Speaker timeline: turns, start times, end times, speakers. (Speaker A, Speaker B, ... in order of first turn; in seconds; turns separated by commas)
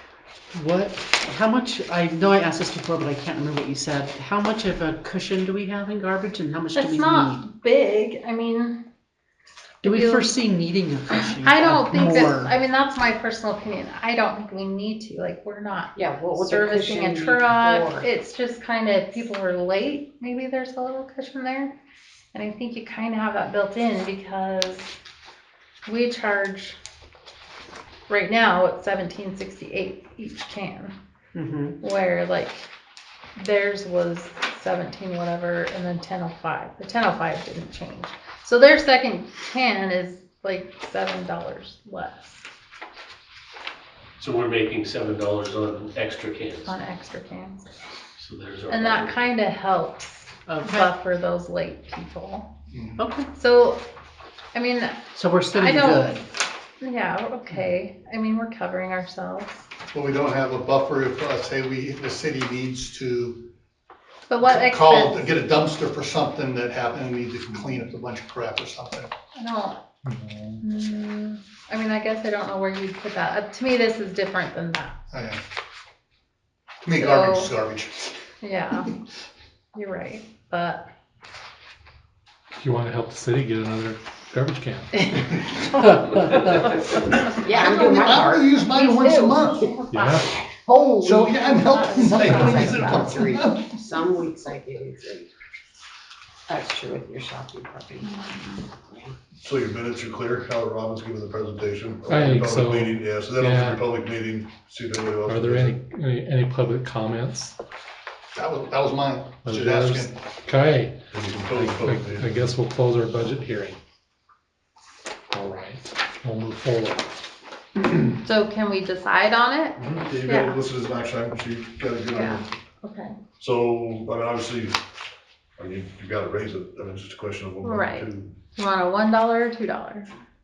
Speaker A: 0.5-7.5, Speaker B: 6.7-8.8, Speaker B: 9.8-10.3, Speaker A: 9.8-12.5, Speaker B: 11.3-21.7, Speaker C: 15.9-18.1, Speaker B: 22.3-24.9, Speaker B: 25.8-26.8, Speaker B: 28.1-30.9, Speaker A: 31.3-31.8, Speaker B: 31.8-32.6, Speaker B: 33.4-42.4, Speaker D: 44.2-46.8, Speaker B: 46.6-47.6, Speaker D: 48.2-49.2, Speaker B: 48.7-52.5, Speaker A: 50.5-50.9, Speaker E: 52.7-53.0, Speaker A: 53.0-53.3, Speaker B: 53.3-53.8, Speaker B: 54.5-55.0, Speaker A: 55.1-56.2, Speaker B: 55.5-56.3, Speaker B: 56.8-59.6, Speaker E: 59.9-63.5, Speaker B: 64.3-65.3, Speaker E: 64.4-69.1, Speaker B: 69.3-69.8, Speaker F: 70.0-70.6, Speaker B: 70.6-75.0, Speaker E: 75.1-75.4, Speaker E: 76.8-78.1, Speaker B: 76.9-77.5, Speaker B: 78.4-78.9, Speaker B: 79.7-80.9, Speaker F: 82.6-85.2, Speaker B: 85.6-86.5, Speaker C: 87.4-89.2, Speaker E: 87.5-89.7, Speaker B: 88.7-90.3, Speaker F: 89.9-90.3, Speaker C: 90.5-95.3, Speaker E: 90.9-93.7, Speaker B: 91.5-93.3, Speaker C: 96.5-99.1, Speaker B: 98.0-98.6, Speaker G: 99.4-105.8, Speaker F: 102.1-103.8, Speaker F: 105.2-107.5, Speaker E: 108.3-110.1, Speaker F: 109.4-113.8, Speaker G: 111.1-112.5, Speaker F: 115.3-117.1, Speaker B: 118.2-120.6, Speaker G: 119.8-122.5, Speaker B: 122.1-123.1, Speaker G: 123.4-124.8, Speaker G: 125.6-128.3, Speaker B: 127.6-130.1